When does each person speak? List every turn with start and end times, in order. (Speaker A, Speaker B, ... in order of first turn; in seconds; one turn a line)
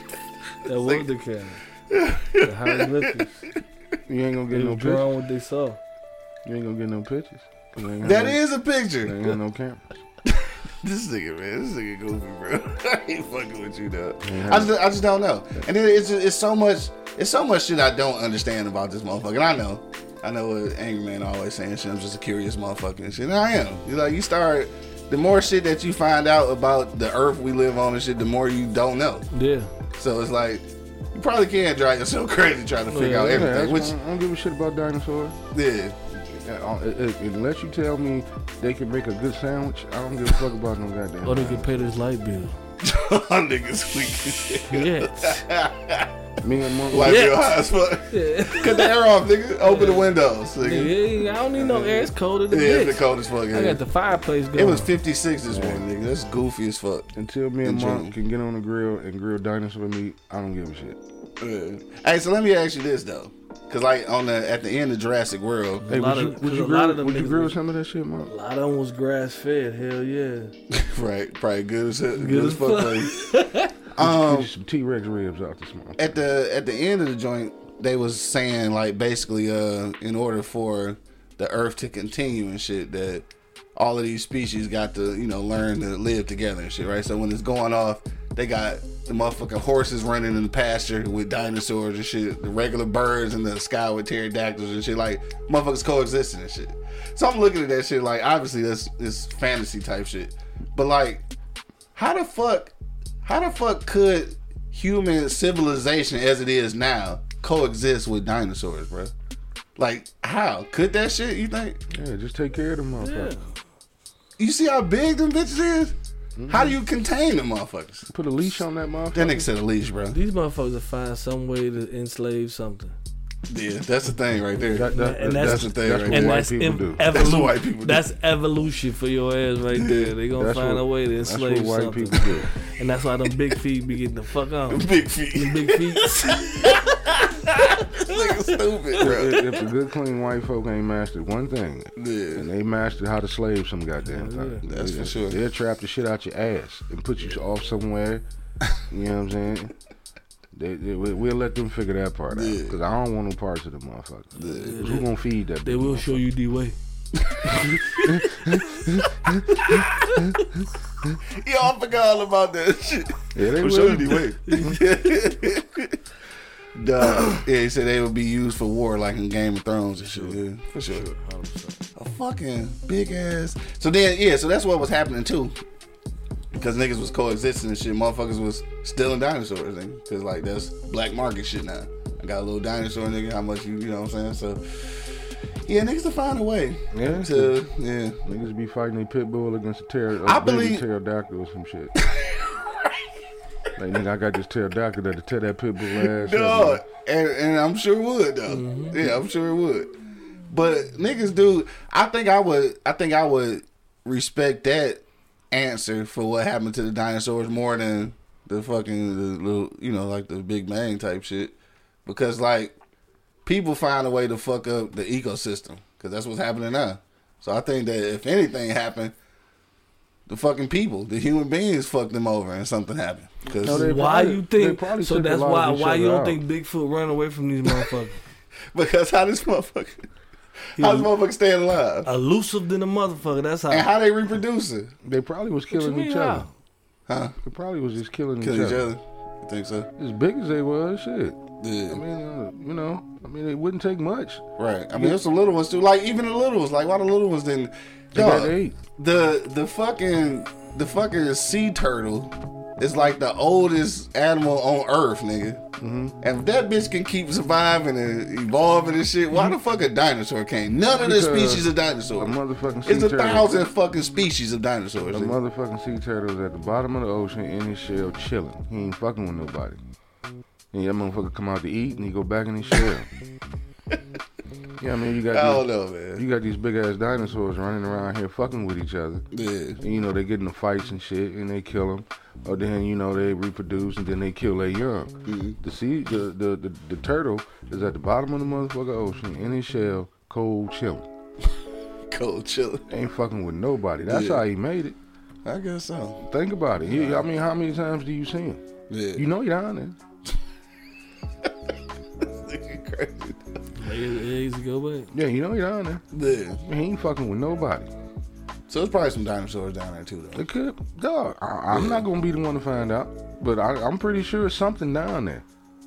Speaker A: 0.6-1.6
Speaker B: 1.9-3.1
Speaker A: 2.4-3.4
Speaker C: 4.1-5.1
Speaker A: 4.5-5.8
Speaker C: 6.5-8.4
Speaker B: 8.0-9.3
Speaker C: 9.0-10.0
Speaker B: 10.3-29.3
Speaker C: 14.2-14.8
Speaker A: 29.3-29.7
Speaker B: 30.0-33.9
Speaker A: 32.9-33.5
Speaker C: 33.3-35.4
Speaker B: 35.5-36.0
Speaker C: 36.2-41.9
Speaker A: 41.2-42.6
Speaker B: 42.8-46.1
Speaker A: 44.3-45.5
Speaker C: 46.4-47.4
Speaker B: 46.9-53.8
Speaker A: 46.9-48.9
Speaker A: 49.6-54.9
Speaker B: 54.5-57.1
Speaker C: 55.5-55.9
Speaker C: 57.2-61.0
Speaker B: 57.6-58.2
Speaker B: 61.4-65.9
Speaker A: 65.8-67.5
Speaker C: 65.9-68.3
Speaker A: 68.3-70.5
Speaker B: 70.7-73.2
Speaker A: 72.2-73.8
Speaker B: 73.9-74.5
Speaker C: 74.0-76.2
Speaker B: 76.0-83.2
Speaker B: 83.8-101.2
Speaker B: 102.0-102.7
Speaker B: 103.2-109.1
Speaker B: 109.8-111.8
Speaker C: 111.9-113.3
Speaker A: 113.0-113.5
Speaker B: 114.4-115.9
Speaker C: 116.4-116.8
Speaker B: 116.5-118.6
Speaker C: 118.1-119.5
Speaker B: 119.1-120.2
Speaker A: 120.1-123.0
Speaker B: 123.5-126.4
Speaker C: 124.7-127.0
Speaker A: 124.9-136.8
Speaker B: 127.1-128.1
Speaker B: 129.7-130.1
Speaker C: 130.4-132.5
Speaker B: 134.7-139.4
Speaker A: 137.9-139.1
Speaker C: 139.0-148.2
Speaker B: 142.0-142.5
Speaker A: 144.1-144.6
Speaker B: 144.6-145.4
Speaker C: 148.9-149.7
Speaker C: 150.5-156.2
Speaker B: 152.3-152.8
Speaker B: 154.4-154.8
Speaker A: 154.4-155.1
Speaker A: 155.6-156.8
Speaker B: 157.2-158.2
Speaker C: 157.9-160.4
Speaker B: 159.5-160.3
Speaker B: 161.2-166.0
Speaker C: 163.3-164.8
Speaker A: 164.4-164.8
Speaker B: 166.8-171.1
Speaker A: 170.9-171.8
Speaker B: 172.0-175.6
Speaker B: 176.6-188.2
Speaker C: 186.9-187.7
Speaker C: 188.2-191.9
Speaker B: 190.2-190.8
Speaker B: 192.0-192.9
Speaker C: 193.8-196.8
Speaker B: 195.9-199.9
Speaker A: 198.5-199.0
Speaker B: 200.5-211.5
Speaker B: 212.1-212.8
Speaker B: 213.5-219.1
Speaker B: 220.3-223.9
Speaker A: 223.6-228.2
Speaker C: 223.6-226.4
Speaker B: 228.7-230.1
Speaker A: 230.8-231.1
Speaker B: 230.8-232.1
Speaker A: 232.1-233.9
Speaker B: 233.7-234.9
Speaker C: 235.0-236.5
Speaker A: 235.7-236.5
Speaker B: 237.1-237.3
Speaker C: 237.4-238.9
Speaker B: 238.4-239.9
Speaker C: 240.0-241.4
Speaker B: 241.6-242.0
Speaker C: 241.9-244.4
Speaker B: 244.6-255.6
Speaker C: 248.1-248.8
Speaker C: 255.8-256.2
Speaker B: 256.2-265.4
Speaker C: 259.3-259.6
Speaker C: 260.9-263.5
Speaker C: 265.1-269.8
Speaker C: 270.7-273.1
Speaker C: 274.8-279.3
Speaker B: 275.3-276.2
Speaker B: 279.3-279.8
Speaker C: 279.8-291.1
Speaker B: 285.3-285.6
Speaker B: 292.1-292.9
Speaker C: 292.9-295.0
Speaker B: 294.1-294.4
Speaker B: 295.4-296.2
Speaker C: 296.2-298.6
Speaker B: 296.8-297.3
Speaker B: 298.9-299.3
Speaker C: 299.2-300.0
Speaker B: 302.2-303.4
Speaker A: 303.8-305.1
Speaker C: 305.1-306.0
Speaker B: 306.1-306.6
Speaker C: 306.6-307.9
Speaker B: 308.7-310.5
Speaker C: 310.3-315.4
Speaker B: 311.7-312.1